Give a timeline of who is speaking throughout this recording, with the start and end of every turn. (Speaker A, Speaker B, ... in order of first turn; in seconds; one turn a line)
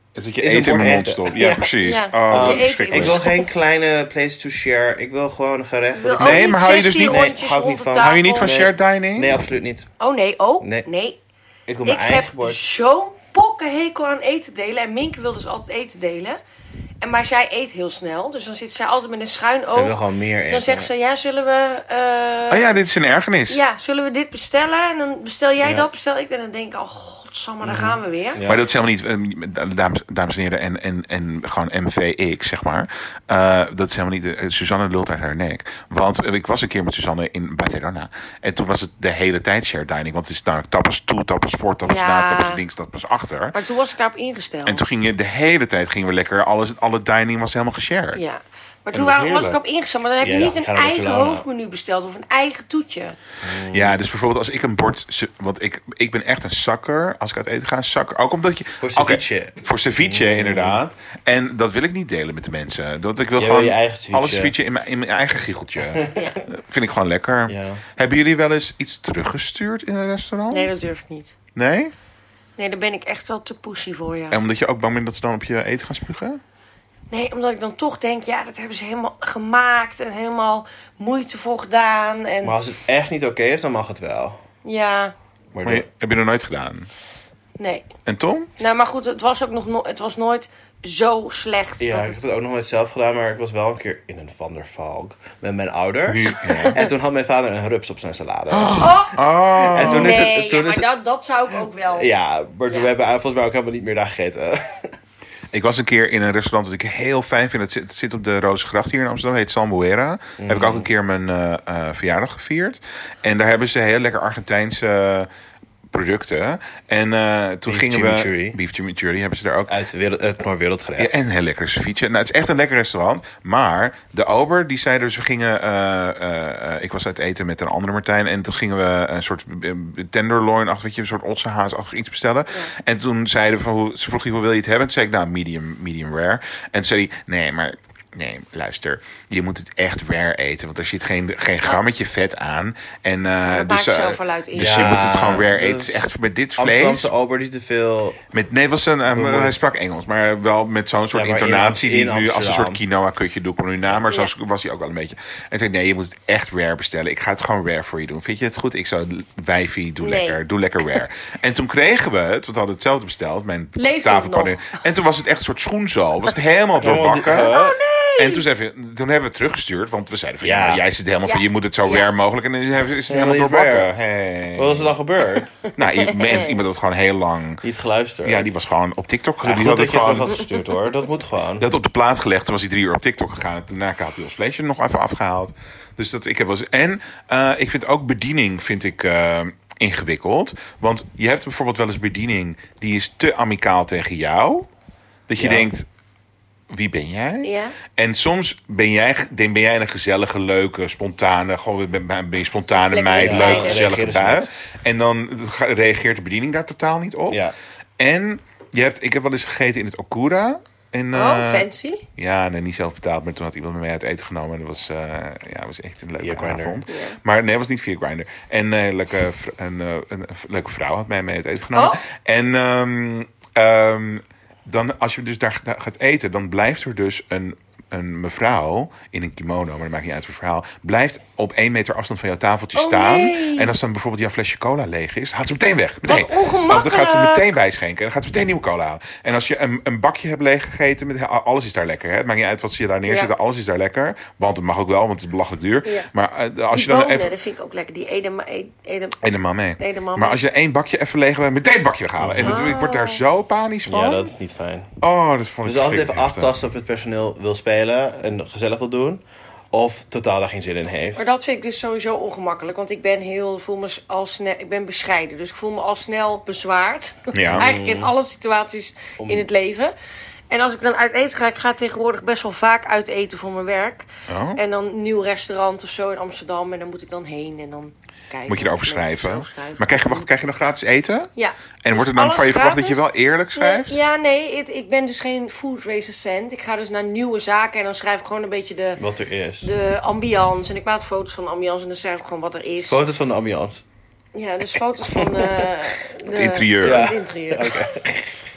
Speaker A: 0.1-3.2
Speaker B: 0.4-9.9
Speaker C: 1.8-3.6
Speaker C: 5.9-8.6
Speaker A: 6.2-7.3
Speaker A: 8.0-9.4
Speaker C: 10.0-11.2
Speaker B: 10.6-10.8
Speaker B: 11.7-12.6
Speaker C: 11.8-16.4
Speaker C: 17.0-22.8
Speaker B: 19.7-20.9
Speaker A: 22.5-23.6
Speaker C: 23.5-28.4
Speaker B: 25.6-25.9
Speaker B: 27.6-28.6
Speaker A: 28.4-43.5
Speaker C: 41.8-42.6
Speaker C: 43.5-45.0
Speaker A: 44.6-48.2
Speaker C: 48.1-53.2
Speaker A: 48.9-49.6
Speaker B: 50.2-51.5
Speaker B: 53.4-54.0
Speaker A: 53.7-70.8
Speaker B: 58.8-60.8
Speaker B: 63.4-64.5
Speaker B: 65.9-66.4
Speaker B: 67.5-67.8
Speaker C: 70.5-71.3
Speaker A: 71.5-71.9
Speaker C: 72.6-74.4
Speaker A: 74.3-76.4
Speaker C: 77.1-82.6
Speaker B: 82.4-84.4
Speaker C: 84.6-85.1
Speaker B: 85.5-85.8
Speaker A: 85.6-86.9
Speaker C: 87.6-87.8
Speaker A: 88.0-88.5
Speaker C: 88.6-92.2
Speaker B: 91.8-100.9
Speaker A: 96.1-96.8
Speaker C: 96.5-96.9
Speaker A: 98.5-100.3
Speaker C: 98.8-102.1
Speaker B: 101.9-104.9
Speaker A: 105.5-115.3
Speaker B: 110.4-110.9
Speaker A: 115.9-119.7
Speaker B: 117.7-118.5
Speaker B: 119.7-121.1
Speaker A: 121.0-147.1
Speaker C: 143.4-145.1
Speaker B: 144.5-148.2
Speaker A: 148.3-167.6
Speaker B: 149.1-149.6
Speaker B: 151.1-152.8
Speaker C: 160.0-160.4
Speaker C: 163.8-164.8
Speaker B: 166.8-167.8
Speaker C: 167.4-168.4
Speaker A: 168.2-174.9
Speaker B: 170.4-170.8
Speaker C: 171.2-172.1
Speaker B: 173.1-173.9
Speaker B: 174.6-175.6
Speaker A: 175.8-177.6
Speaker C: 175.9-176.5
Speaker B: 177.6-178.5
Speaker A: 178.2-180.3
Speaker B: 179.4-181.7
Speaker A: 181.6-194.7
Speaker A: 195.3-195.9
Speaker B: 195.4-195.7
Speaker A: 196.7-207.4
Speaker C: 197.4-197.7
Speaker C: 202.9-203.9
Speaker B: 203.2-204.5
Speaker B: 207.3-207.5
Speaker A: 208.0-247.3
Speaker C: 211.1-212.1
Speaker B: 216.2-216.8
Speaker C: 216.9-217.2
Speaker C: 221.7-222.0
Speaker C: 232.7-233.7
Speaker C: 236.0-237.5
Speaker C: 243.1-243.3
Speaker C: 246.7-249.2
Speaker A: 249.2-254.3
Speaker C: 249.8-250.4
Speaker B: 252.2-252.7
Speaker C: 252.4-253.2
Speaker B: 253.9-255.0
Speaker A: 255.0-256.5
Speaker B: 255.6-259.2
Speaker B: 259.7-261.3
Speaker C: 261.1-269.9
Speaker A: 267.3-267.7
Speaker B: 267.5-268.1
Speaker B: 269.2-269.5
Speaker C: 270.5-280.4
Speaker A: 274.3-274.6
Speaker A: 278.5-281.3
Speaker C: 281.4-289.0
Speaker A: 281.8-284.0
Speaker B: 289.0-289.7
Speaker C: 289.6-293.0
Speaker B: 292.9-293.8
Speaker C: 294.3-297.9
Speaker B: 295.1-295.7
Speaker A: 296.2-297.1
Speaker B: 296.8-298.3